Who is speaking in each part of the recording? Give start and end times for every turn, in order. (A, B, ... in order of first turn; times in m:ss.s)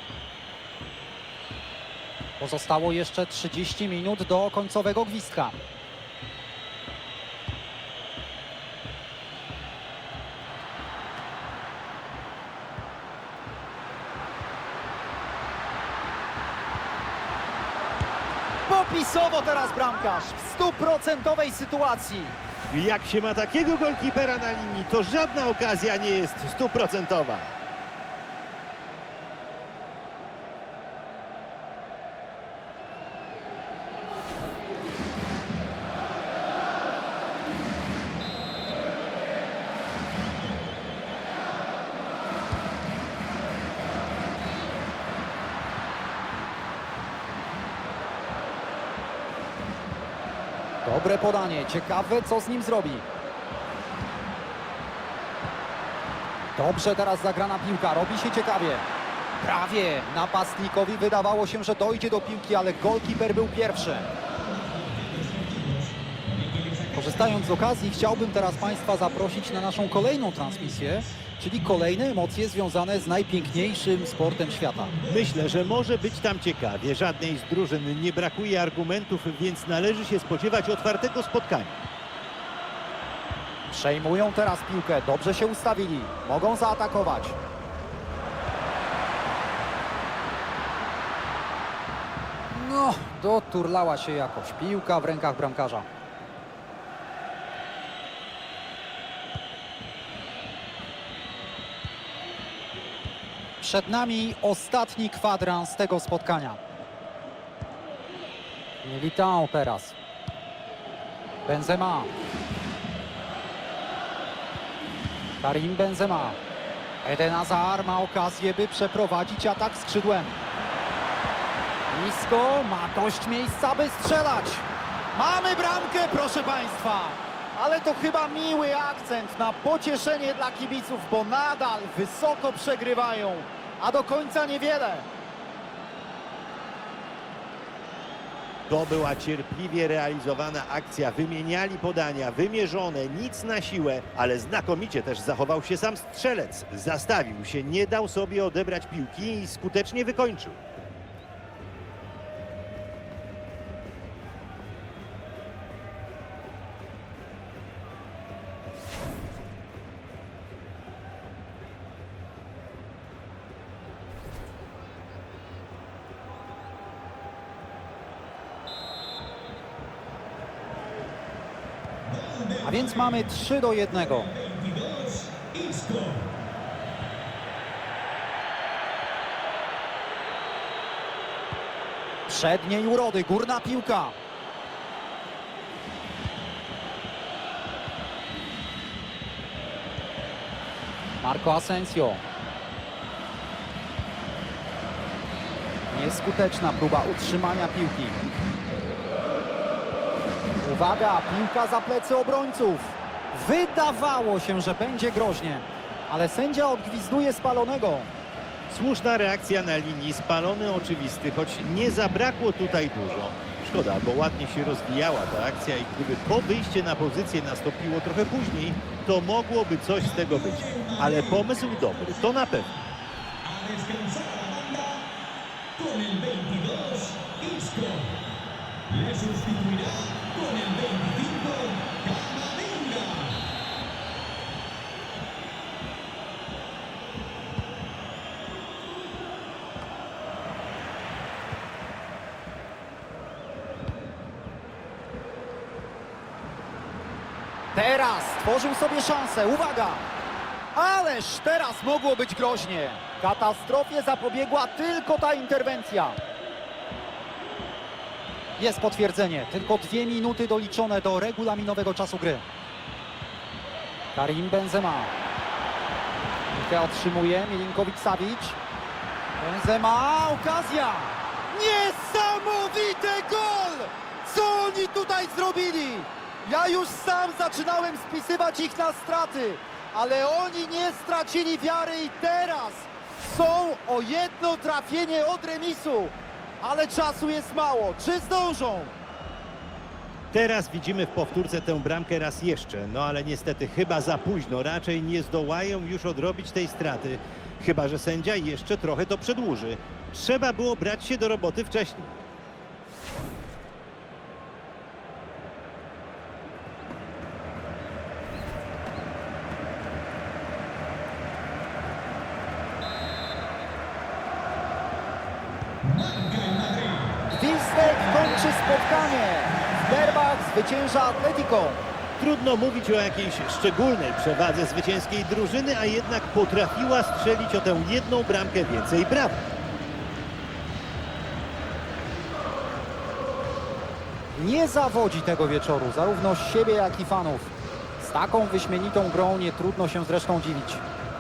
0:02.4-0:05.6 A
0:18.7-0:22.4 A
0:22.7-0:27.5 B
0:50.8-0:53.0 A
0:56.6-0:58.8 A
0:59.4-1:04.1 A
1:04.5-1:05.8 C
1:06.6-1:06.9 C
1:06.9-1:15.0 A
1:15.0-1:21.8 B
1:23.7-1:27.4 A
1:32.5-1:35.9 A
1:43.6-1:46.6 A
1:48.8-1:50.0 A
1:51.5-1:52.1 A
1:55.4-1:56.4 A
1:57.0-2:00.4 A
2:01.9-2:15.1 A
2:18.7-2:30.6 B
2:52.2-2:52.6 C
2:52.6-2:54.3 A
2:54.3-2:56.2 C
3:02.3-3:04.2 A
3:11.2-3:12.2 A
3:15.9-3:18.2 A
3:20.6-3:28.1 A
3:28.7-3:42.7 B
3:40.6-3:41.1 C
3:43.4-3:45.1 C
3:45.8-3:48.1 C
3:48.9-3:53.4 C
4:07.7-4:10.0 A
4:10.8-4:16.2 A
4:18.6-4:22.4 A
4:24.2-4:25.1 A
4:26.5-4:28.6 A
4:29.4-4:48.9 A
4:50.3-5:02.2 B
5:15.9-5:17.1 C
5:17.3-5:21.8 A
5:22.2-5:29.5 B
5:34.4-5:40.8 A